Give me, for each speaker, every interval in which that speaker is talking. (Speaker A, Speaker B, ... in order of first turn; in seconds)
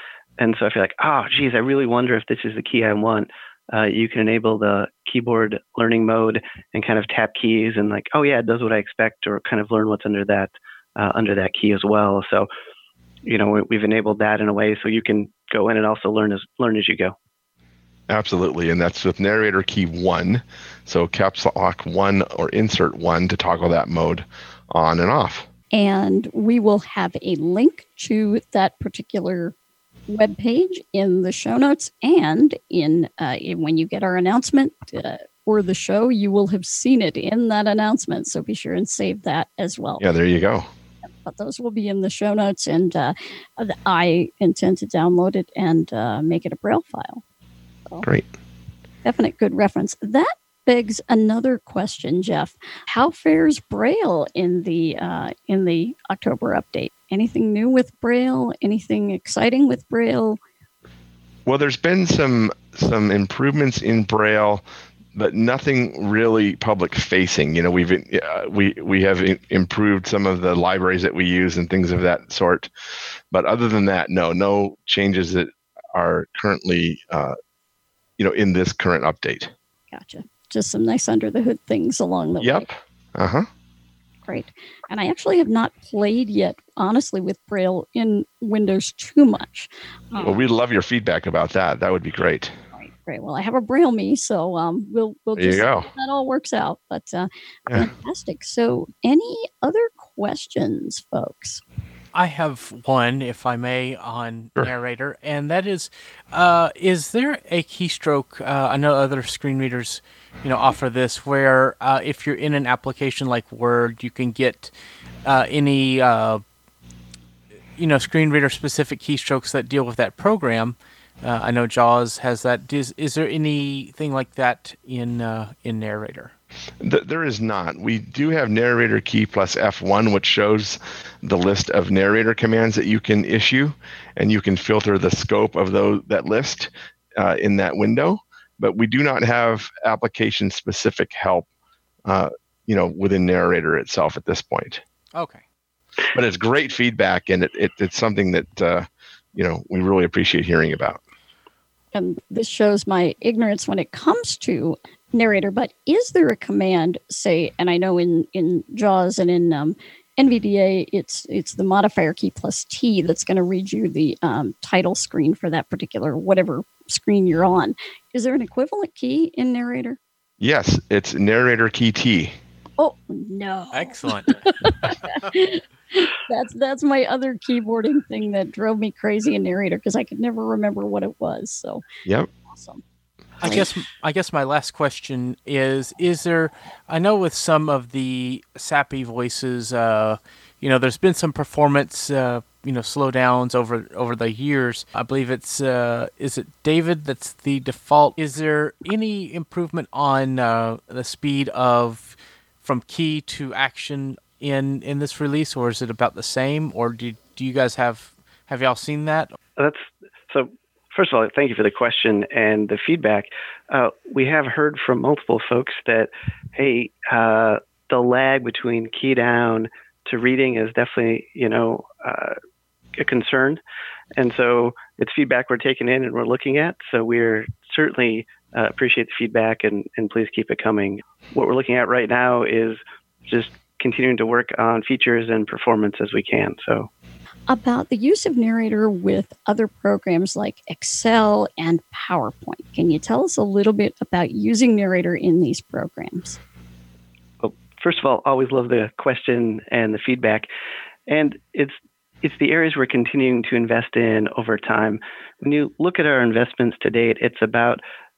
Speaker A: 0.4-12.5, 13.2-17.1, 209.6-222.4, 223.0-223.6, 224.2-236.9, 247.4-250.5, 251.1-257.8
Speaker B: 18.1-25.4, 40.0-40.7, 61.5-64.6, 65.1-72.7, 73.3-77.4, 78.2-79.5, 82.4-83.5, 90.2-92.5, 95.4-95.9, 126.8-141.4, 142.1-144.8, 146.1-151.0, 170.4-172.4
Speaker C: 25.7-29.5, 30.1-40.0, 41.2-47.2, 49.0-60.4, 79.9-82.7, 84.3-90.4, 92.7-101.6, 151.9-170.0, 172.8-181.8, 182.5-182.8, 183.4-183.7, 237.5-246.4
Speaker D: 102.1-114.7, 115.2-116.4, 117.8-126.3, 145.1-145.4, 173.7-175.2, 183.4-209.4